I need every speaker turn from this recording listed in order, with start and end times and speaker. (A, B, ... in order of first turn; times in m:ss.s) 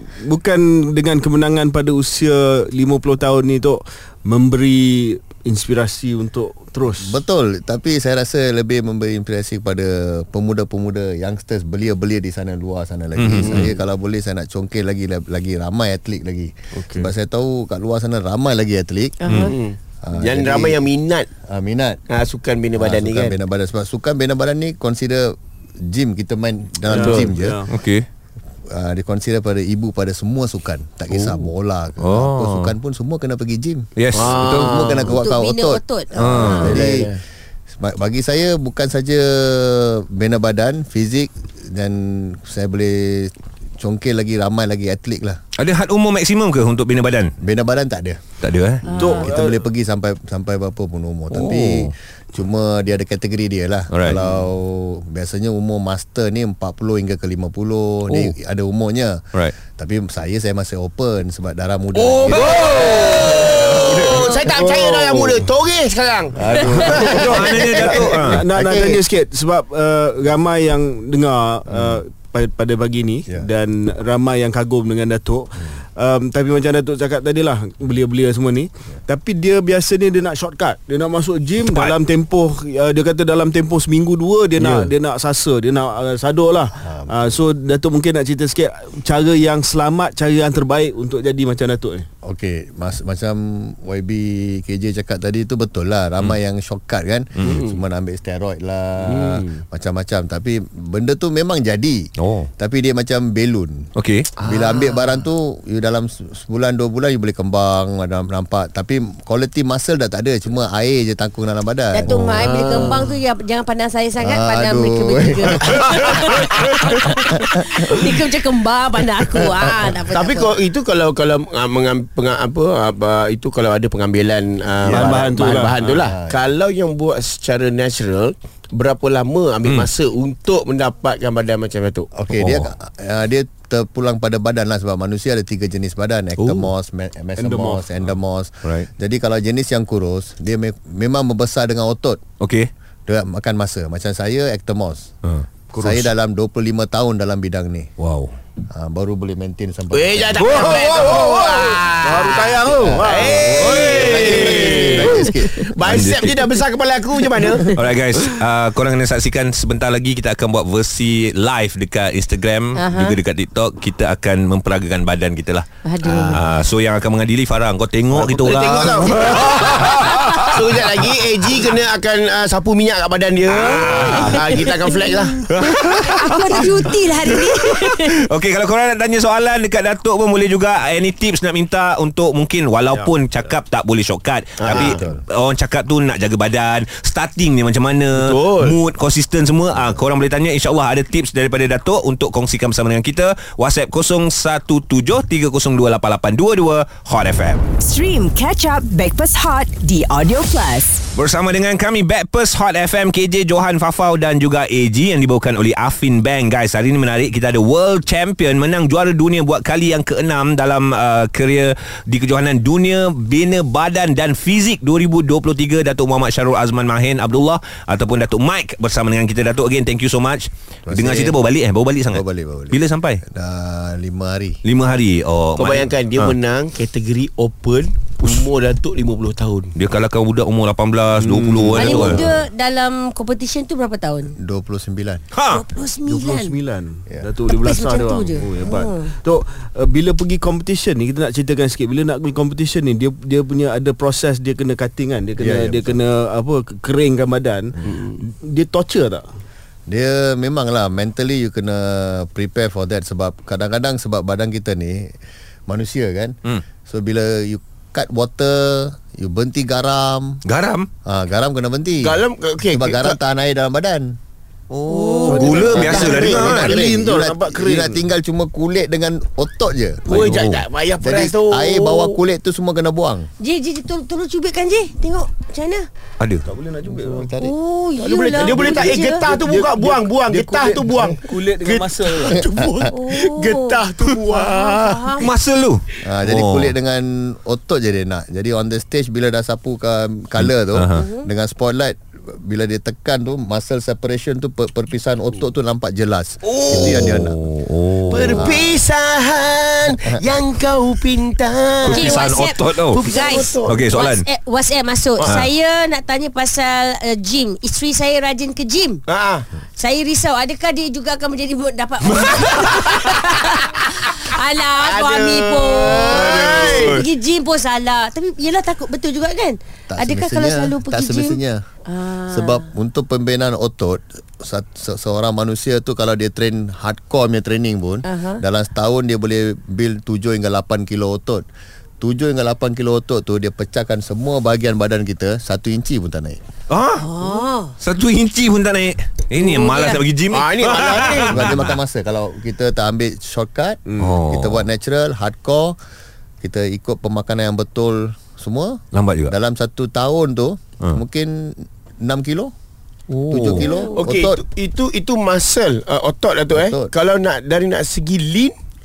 0:00.2-0:07.2 A
0:07.0-0:19.2 B
0:13.2-0:13.7 C
0:13.4-0:13.7 D
0:16.7-0:17.1 A
0:19.2-0:19.6 E
0:19.4-0:21.3 D
0:20.0-0:20.8 B
0:21.4-0:22.0 B
0:22.1-0:23.3 D
0:22.8-0:27.6 B
0:26.9-0:27.7 A
0:26.9-0:27.3 D
0:27.7-0:28.0 C
0:28.7-0:37.2 B
0:32.0-0:32.7 C
0:34.0-0:34.9 C
0:34.1-0:35.2 D
0:35.1-0:36.7 E
0:36.1-0:36.8 C
0:36.2-0:37.2 D
0:37.8-0:45.4 B
0:45.6-0:47.3 C
0:47.4-0:48.2 B
0:48.4-0:48.9 C
0:48.9-0:49.2 E
0:48.9-0:49.6 A
0:49.0-1:04.3 B
0:51.3-0:51.9 C
0:53.9-0:54.2 C
0:58.1-0:58.3 C
1:01.9-1:08.2 D
1:02.3-1:03.3 C
1:04.5-1:05.4 A
1:06.3-1:09.0 B
1:06.7-1:32.1 A
1:07.0-1:08.4 C
1:11.7-1:12.0 B
1:21.6-1:22.0 C
1:26.8-1:27.3 B
1:32.2-1:43.9 B
1:37.4-1:37.8 D
1:39.1-1:39.6 D
1:42.2-1:42.5 C
1:44.0-1:44.3 C
1:44.4-1:45.1 D
1:44.4-1:52.9 B
1:51.9-2:00.5 E
1:52.2-1:53.1 D
1:54.2-1:58.0 B
2:00.1-2:12.1 D
2:04.8-2:05.3 B
2:04.8-2:06.0 A
2:06.0-2:06.4 B
2:12.1-2:22.2 B
2:12.3-2:12.7 C
2:16.4-2:16.7 C
2:17.4-2:17.8 A
2:22.4-2:22.7 C
2:23.1-2:25.1 B
2:25.7-2:26.1 A
2:25.8-2:27.9 B
2:28.0-2:28.3 C
2:28.7-2:31.1 B
2:29.9-2:37.7 D
2:30.4-2:34.6 A
2:32.7-2:36.0 B
2:33.6-2:35.1 C
2:35.8-2:36.4 C
2:37.7-2:50.7 C
2:42.8-2:43.2 E
2:45.8-2:46.4 E
2:48.1-2:55.5 D
2:53.5-2:54.7 C
2:54.1-2:58.2 E
2:55.5-3:17.7 C
3:04.6-3:05.0 D
3:04.7-3:05.2 B
3:08.1-3:08.8 D
3:17.8-3:21.0 F
3:21.1-3:43.2 C
3:40.9-3:41.4 B
3:42.1-3:44.6 B
3:44.6-3:46.3 C
3:45.6-3:49.7 D
3:49.7-3:52.2 C
3:51.2-3:52.2 A
3:51.7-3:54.3 E
3:54.4-3:55.2 B
3:55.3-3:55.6 C
3:55.5-3:56.5 E
3:56.0-4:09.2 A
3:57.4-3:59.1 E
4:05.4-4:06.0 B
4:07.8-4:08.2 D
4:09.9-4:15.2 B
4:15.7-4:20.4 B
4:20.4-4:20.9 C
4:21.0-4:24.2 B
4:22.0-4:23.2 D
4:24.7-4:26.7 C
4:24.8-4:25.7 E
4:25.3-4:28.0 A
4:25.3-4:26.8 D
4:25.7-4:30.4 B
4:30.1-4:32.2 D
4:30.1-4:30.6 C
4:31.0-4:33.3 B
4:33.4-4:35.8 E
4:36.2-4:36.5 C
4:36.4-4:37.3 A
4:36.8-4:37.5 B
4:37.4-4:39.2 E
4:38.0-4:45.2 D
4:38.4-4:42.4 A
4:42.4-4:42.9 B
4:42.9-4:45.3 E
4:45.2-4:46.7 C
4:46.0-4:57.4 B
4:50.4-4:51.0 C
4:50.9-4:51.3 E
4:56.5-4:57.1 D
4:56.7-4:58.5 C
4:58.1-5:02.2 D
4:58.3-4:58.8 B
5:01.8-5:03.0 C
5:01.9-5:09.0 E
5:02.8-5:03.8 D
5:03.6-5:04.2 C
5:09.1-5:09.4 D
5:09.8-5:22.7 E
5:12.1-5:12.9 C
5:14.8-5:17.0 D
5:16.0-5:17.0 C
5:19.9-5:21.6 B
5:22.3-5:31.4 B
5:28.0-5:28.4 E
5:32.0-5:36.4 B
5:36.7-5:37.1 C
5:37.0-5:37.7 E
5:37.8-5:41.8 C
5:39.4-5:40.0 E
5:40.3-5:41.5 D
5:41.2-5:45.8 B
5:43.9-5:44.2 A
5:44.0-5:44.6 C
5:46.4-5:52.5 B
5:48.9-5:49.3 C
5:53.1-5:53.7 C
5:53.3-5:54.4 B
5:53.6-5:54.0 E
5:53.9-5:58.5 D
5:56.5-5:56.9 B